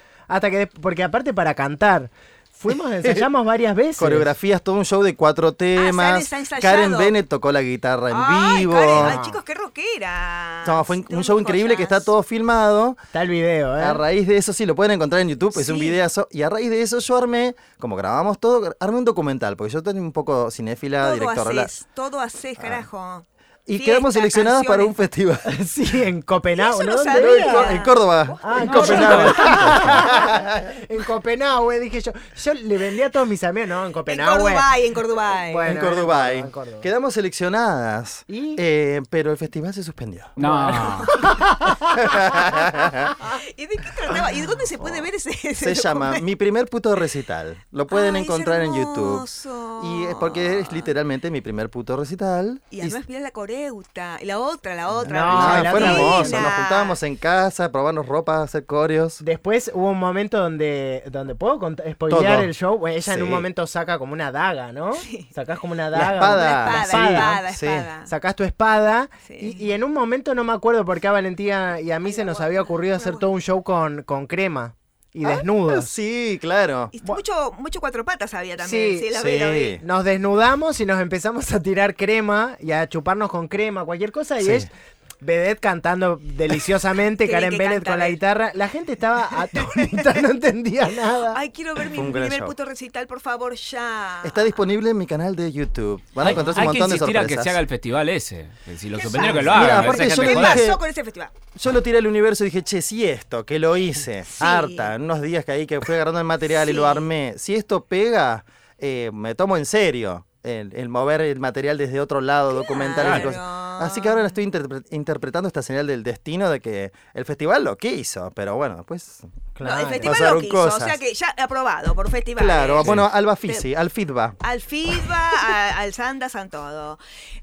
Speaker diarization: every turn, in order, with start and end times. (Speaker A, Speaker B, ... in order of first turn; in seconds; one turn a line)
Speaker A: 0.3-4.3
Speaker B: 4.0-9.2
Speaker C: 5.7-7.2
Speaker C: 8.1-12.1
Speaker A: 8.9-9.4
Speaker B: 10.6-13.0
Speaker A: 13.1-14.0
Speaker B: 13.8-21.7
Speaker C: 15.5-16.0
Speaker C: 21.0-25.0
Speaker B: 22.6-22.9
Speaker B: 23.7-25.4
Speaker A: 25.4-27.9
Speaker C: 26.5-29.5
Speaker B: 27.1-30.6
Speaker A: 28.4-34.7
Speaker D: 28.6-29.8
Speaker C: 34.0-35.7
Speaker A: 35.3-36.9
Speaker B: 35.6-40.3
Speaker A: 38.3-38.6
Speaker D: 40.4-41.1
Speaker A: 40.4-41.8
Speaker C: 41.0-41.4
Speaker B: 41.8-43.1
Speaker C: 43.2-46.2
Speaker B: 44.1-49.2
Speaker C: 47.9-50.9
Speaker B: 49.8-53.0
Speaker C: 52.7-57.0
Speaker B: 55.0-59.2
Speaker A: 55.0-56.5
Speaker A: 59.2-67.4
Speaker B: 62.1-62.5
Speaker B: 63.0-63.5
Speaker C: 65.0-65.3
Speaker B: 65.9-67.9
Speaker C: 66.2-68.1
Speaker A: 68.1-75.9
Speaker C: 69.2-69.8
Speaker C: 72.0-73.3
Speaker B: 75.2-76.9
Speaker C: 76.9-79.8
Speaker A: 78.6-79.1
Speaker B: 79.1-79.8
Speaker A: 79.8-91.4
Speaker B: 84.4-84.7
Speaker C: 87.2-88.2
Speaker C: 89.4-90.2
Speaker C: 91.2-94.6
Speaker B: 91.9-92.5
Speaker B: 94.2-97.6
Speaker D: 96.2-100.6
Speaker C: 99.0-101.3
Speaker B: 99.1-100.8
Speaker B: 101.5-119.5
Speaker C: 104.2-104.9
Speaker C: 106.5-107.1
Speaker C: 112.5-114.3
Speaker D: 113.0-113.4
Speaker A: 119.5-120.2
Speaker C: 119.6-123.7
Speaker B: 120.0-121.0
Speaker B: 122.4-124.4
Speaker D: 122.8-123.1
Speaker C: 124.4-127.0